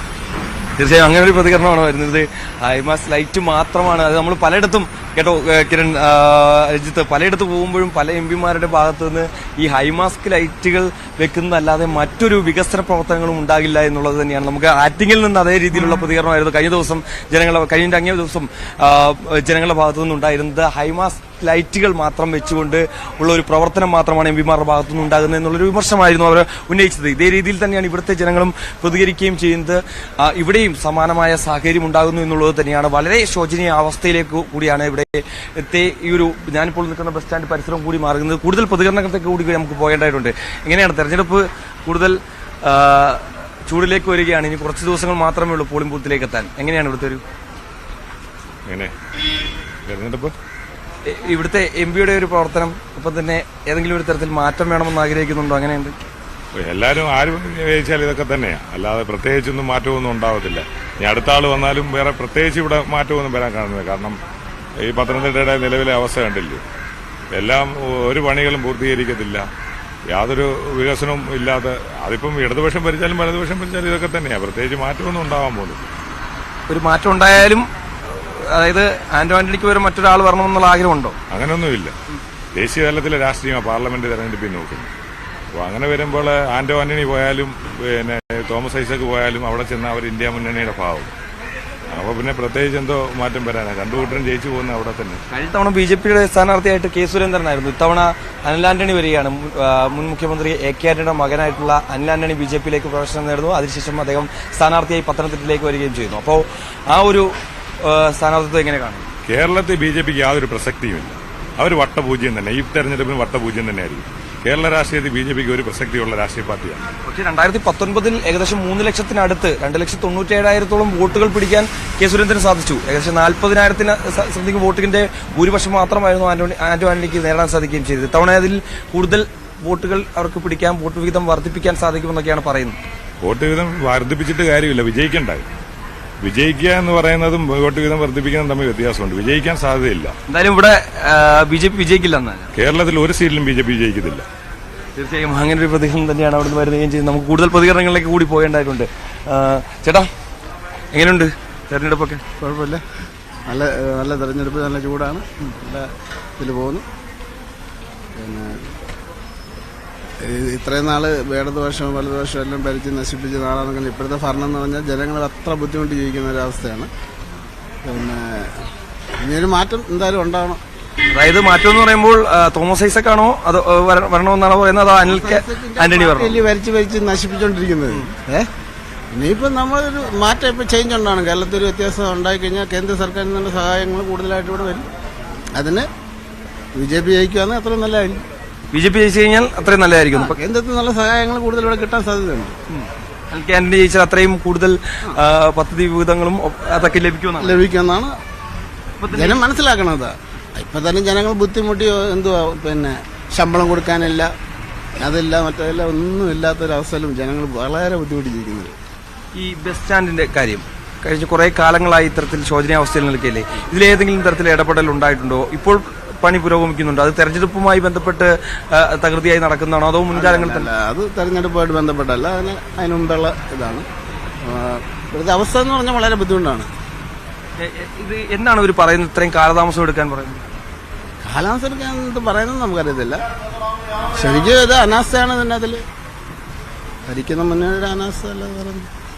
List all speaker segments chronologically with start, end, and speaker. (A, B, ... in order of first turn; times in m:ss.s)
0:00.8-0:47.2 A
0:49.9-0:50.3 B
0:51.1-0:56.0 A
0:56.6-1:04.2 B
1:04.8-1:06.6 B
1:07.3-1:09.5 B
1:10.1-1:15.9 B
1:16.7-1:21.2 A
1:21.3-1:21.9 B
1:22.6-1:24.9 B
1:25.6-1:31.1 B
1:31.9-1:35.2 B
1:35.3-1:47.3 A
1:47.8-1:49.1 A
1:49.3-1:56.8 B
1:57.1-2:12.8 A
2:13.2-2:15.5 B
2:16.2-2:20.1 B
2:20.3-2:22.5 A
2:22.6-2:24.2 B
2:25.0-2:30.1 A
2:30.9-2:32.2 A
2:32.4-2:32.8 C
2:33.5-2:36.8 C
2:38.2-2:38.6 C
2:40.2-2:46.9 C
2:47.9-2:48.5 C
2:49.2-2:50.6 C
2:51.1-2:56.5 A
2:55.0-2:58.5 C
2:59.1-3:04.8 C
3:05.6-3:05.8 C
3:06.8-3:08.2 C
3:08.7-3:10.4 A
3:10.2-3:12.6 C
3:12.7-3:17.6 A
3:17.4-3:18.1 C
3:19.0-3:19.4 A
3:19.1-3:24.3 C
3:25.0-3:28.7 C
3:29.4-3:40.7 A
3:40.1-3:43.9 C
3:44.4-3:46.7 C
3:47.6-3:50.4 A
3:51.2-3:53.2 C
3:54.1-3:55.8 C
3:57.1-3:58.9 C